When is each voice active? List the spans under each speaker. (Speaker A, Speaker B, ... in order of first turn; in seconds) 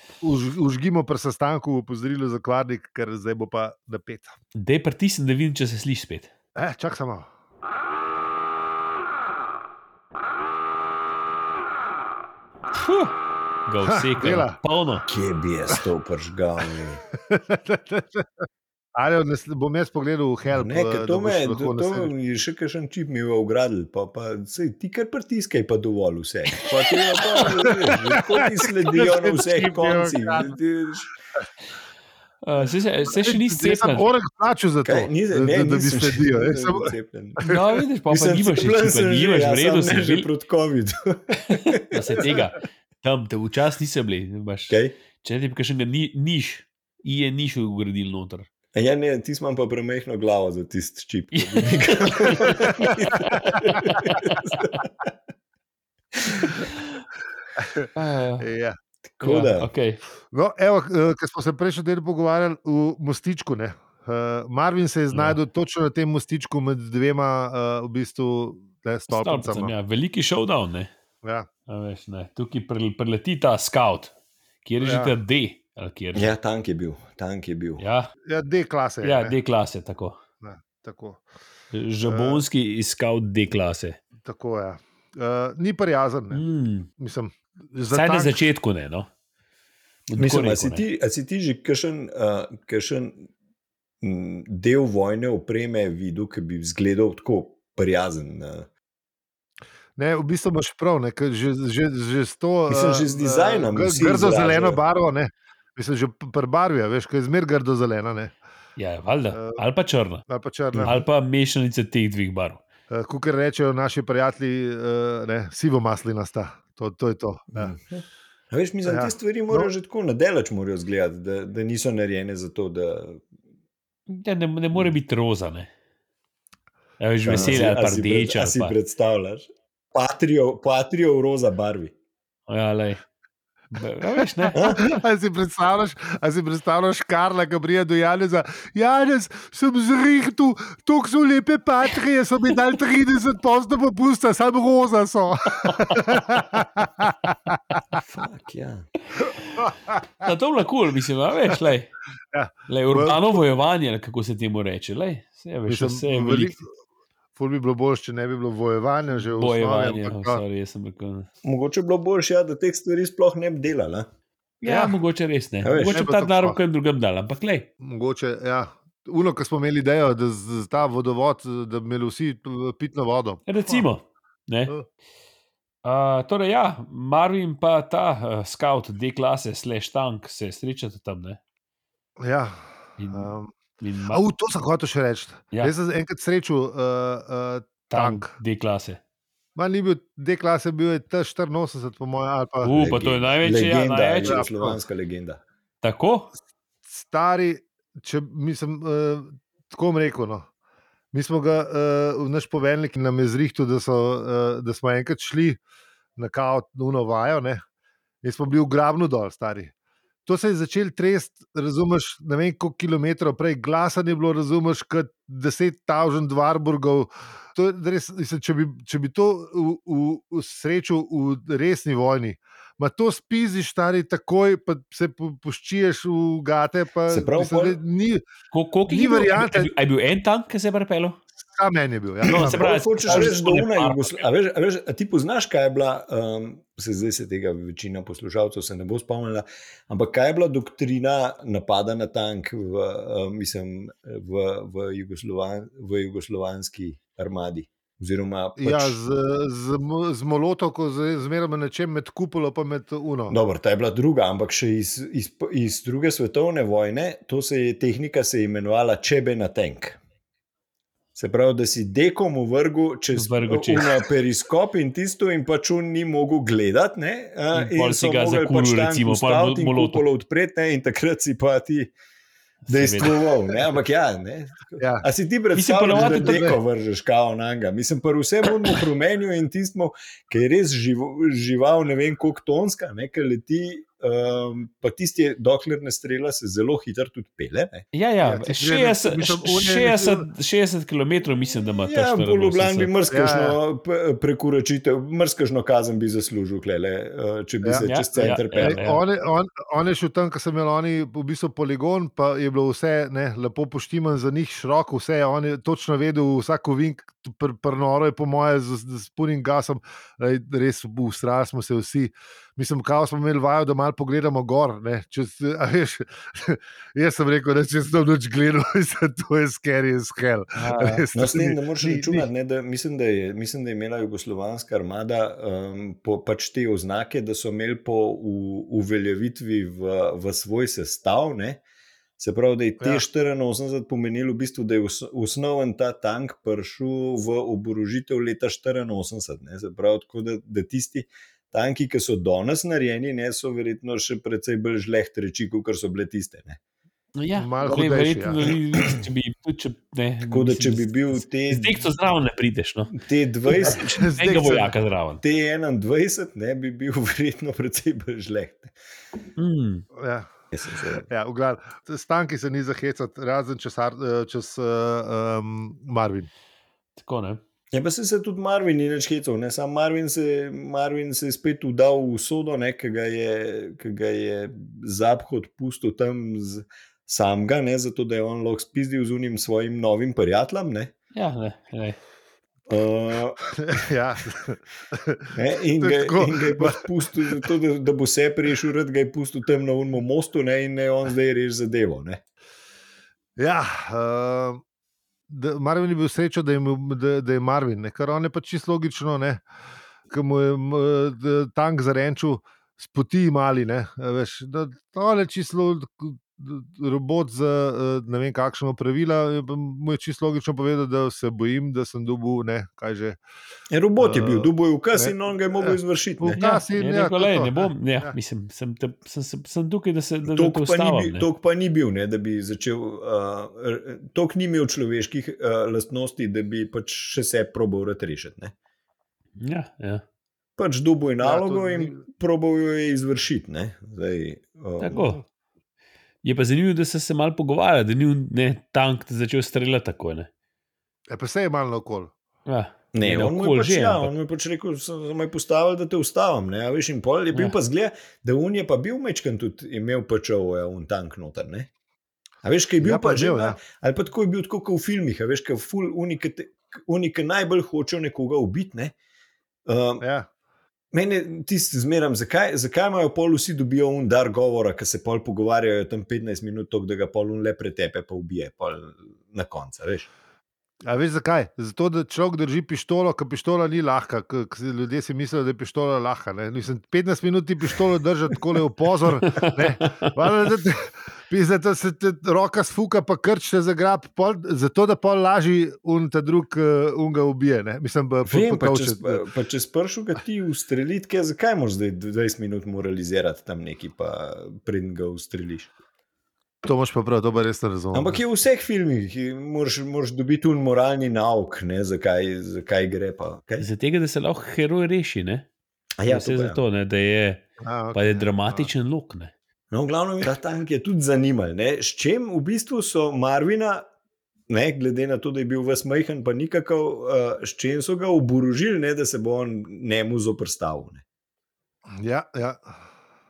Speaker A: 0.2-4.3, 6.6-7.3, 13.8-14.6, 17.3-18.3, 19.0-22.1, 27.4-30.6, 33.1-37.6, 52.3-54.0, 57.6-58.8, 60.3-69.7, 74.8-75.1, 78.3-79.3, 80.4-81.2, 82.0-82.4, 84.2-86.5, 87.0-88.5, 100.0-108.3, 109.3-109.6, 110.3-111.0, 112.9-117.7, 118.9-119.7, 134.2-148.0, 149.6-150.3, 152.3-153.4, 155.7-156.6, 157.3-160.4, 164.7-165.0, 165.9-166.6, 167.8-173.9, 182.2-183.5, 184.1-188.3, 189.6-192.7, 194.3-194.8, 196.9-200.5, 201.1-205.6, 206.2-207.6, 208.2-209.7, 210.3-228.2, 228.9-229.7, 231.5-232.7, 248.6-253.4, 274.8-275.1, 275.9-276.6, 288.2-290.3, 293.1-293.6, 298.6-322.3, 347.4-348.4, 353.6-354.7, 360.0-360.3, 361.1-366.3, 383.6-387.5, 393.4-394.6, 395.3-399.4, 400.1-413.2, 414.0-418.1, 431.2-432.0, 441.1-442.1, 452.8-453.6, 460.0-460.3, 470.9-489.2, 496.6-498.2, 507.6-508.7, 521.9-522.8
Speaker B: 4.5-6.3, 12.7-13.1, 13.7-15.1, 32.4-34.1, 37.4-40.3, 41.5-48.5, 51.3-52.6, 58.0-58.5, 59.2-60.0, 65.1-65.4, 69.1-70.9, 71.7-74.1, 74.6-76.3, 77.8-78.1, 79.0-80.2, 81.7-84.0, 86.3-86.9, 87.9-89.1, 90.1-90.8, 108.8-110.3, 110.8-112.6, 124.1-125.7, 127.0-128.7, 132.5-133.0, 133.7-134.6, 145.6-146.0, 149.2-149.7, 150.2-151.9, 152.7-156.6, 159.2-161.3, 164.6-167.7, 173.5-174.7, 175.8-181.4, 183.0-184.2, 187.9-189.0, 192.6-194.4, 195.8-196.3, 228.5-231.2, 232.2-234.2, 263.1-264.1, 267.5-270.0, 272.7-273.2, 275.5-276.5, 287.9-292.9, 297.9-299.0, 320.6-321.0, 347.2-353.0, 353.6-355.2, 359.4-359.9, 367.0-367.4, 381.1-382.0, 416.4-421.3, 429.4-430.0, 434.8-435.2, 436.2-440.3, 442.5-444.1, 503.6-505.5, 506.1-509.3
Speaker C: 15.1-17.0, 20.5-31.1, 34.9-37.5, 38.1-42.3, 44.7-45.0, 48.7-55.1, 59.1-59.7, 76.2-77.8, 90.2-93.3, 94.0-98.7, 102.7-104.8, 110.8-111.0, 117.5-123.2, 127.2-131.9, 134.5-134.9, 148.0-148.9, 161.4-164.1, 165.6-166.0, 192.7-195.4, 227.1-227.8, 232.2-249.0, 253.3-260.0, 261.1-271.9, 272.7-287.9, 291.8-298.8, 321.1-331.6, 332.2-346.6, 348.5-348.9, 350.3-351.9, 352.9-353.8, 355.2-358.8, 360.5-361.1, 367.7-380.9, 382.7-383.4, 385.3-392.2, 413.7-416.4, 420.3-428.5, 430.6-435.1, 442.9-451.7, 452.4-458.9, 459.7-460.0, 460.9-470.1, 488.3-495.7, 497.9-503.7, 506.0-506.6, 509.7-513.9, 514.5-521.0